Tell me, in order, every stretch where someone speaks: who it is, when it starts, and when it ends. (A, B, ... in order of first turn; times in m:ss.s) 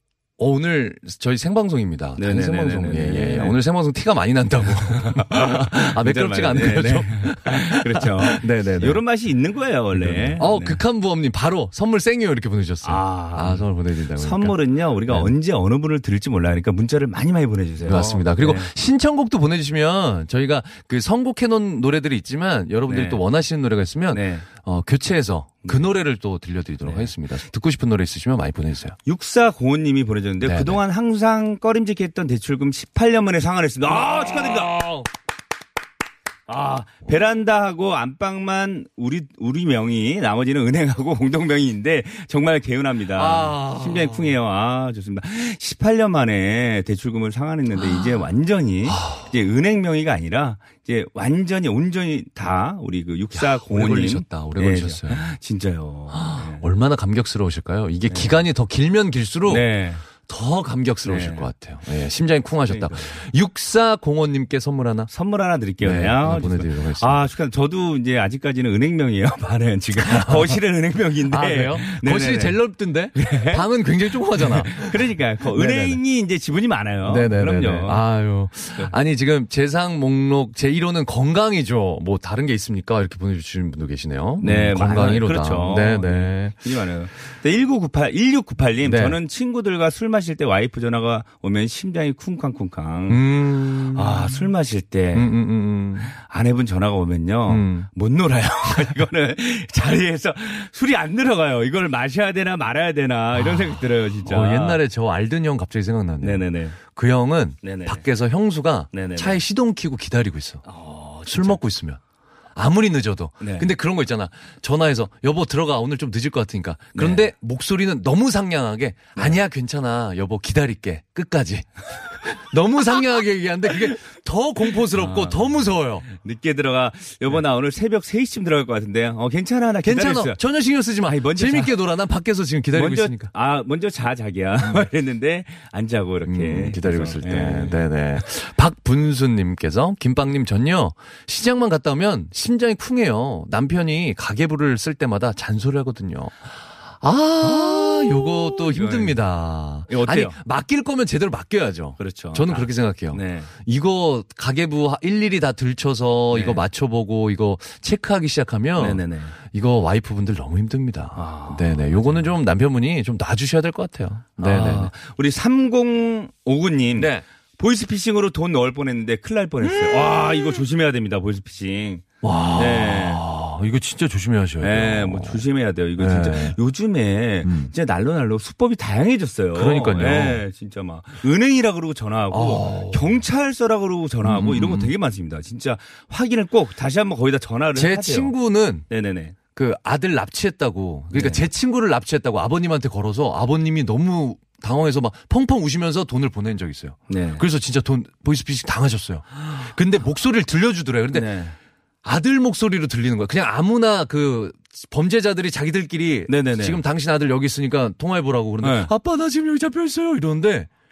0:00.4-0:09.0 A
0:02.2-0:03.6 B
0:04.7-0:10.8 B
0:09.9-0:14.6 A
0:12.8-0:13.6 B
0:14.2-0:18.7 B
0:15.1-0:15.3 A
0:17.8-0:29.0 A
0:22.9-0:23.2 B
0:24.1-0:24.4 B
0:26.8-0:27.1 B
0:29.0-0:34.8 B
0:30.4-0:30.8 A
0:33.9-0:35.1 A
0:36.5-0:56.6 B
0:43.1-0:44.3 A
0:48.9-0:49.2 A
0:53.4-0:55.2 A
0:56.1-0:59.6 A
0:59.5-1:00.0 B
1:00.2-1:05.1 A
1:01.0-1:01.5 B
1:02.7-1:03.0 B
1:05.1-1:12.6 B
1:05.8-1:07.3 A
1:09.9-1:10.6 A
1:11.3-1:16.0 A
1:13.1-1:13.6 B
1:14.3-1:18.0 B
1:17.0-1:26.6 A
1:24.4-1:35.3 B
1:28.8-1:29.2 A
1:33.1-1:34.5 A
1:35.1-1:36.1 A
1:36.0-1:44.8 B
1:37.5-1:37.9 A
1:44.2-1:50.6 A
1:46.2-1:46.8 B
1:47.6-1:48.0 B
1:48.9-1:49.4 B
1:50.7-1:51.6 B
1:51.3-1:52.0 A
1:52.6-2:06.0 A
1:53.4-1:53.7 B
1:56.9-1:57.3 B
2:04.9-2:10.4 B
2:09.8-2:13.3 A
2:11.2-2:11.7 B
2:12.7-2:17.9 B
2:16.2-2:44.9 A
2:27.7-2:29.2 B
2:29.9-2:30.4 B
2:32.0-2:33.5 B
2:36.3-2:36.6 B
2:38.8-2:39.4 B
2:41.2-2:42.3 B
2:44.4-2:52.0 B
2:46.9-2:47.2 A
2:49.6-2:50.6 A
2:52.2-2:55.4 A
2:52.6-2:53.2 B
2:54.6-3:08.3 B
2:56.0-2:56.6 A
2:57.4-2:57.7 A
2:59.5-3:00.4 A
3:02.3-3:03.1 A
3:04.2-3:04.9 A
3:07.8-3:08.9 A
3:08.9-3:09.4 B
3:09.5-3:21.3 A
3:11.1-3:11.5 B
3:17.1-3:17.4 B
3:21.1-3:21.5 B
3:22.0-3:30.7 A
3:26.3-3:26.8 B
3:28.6-3:28.9 B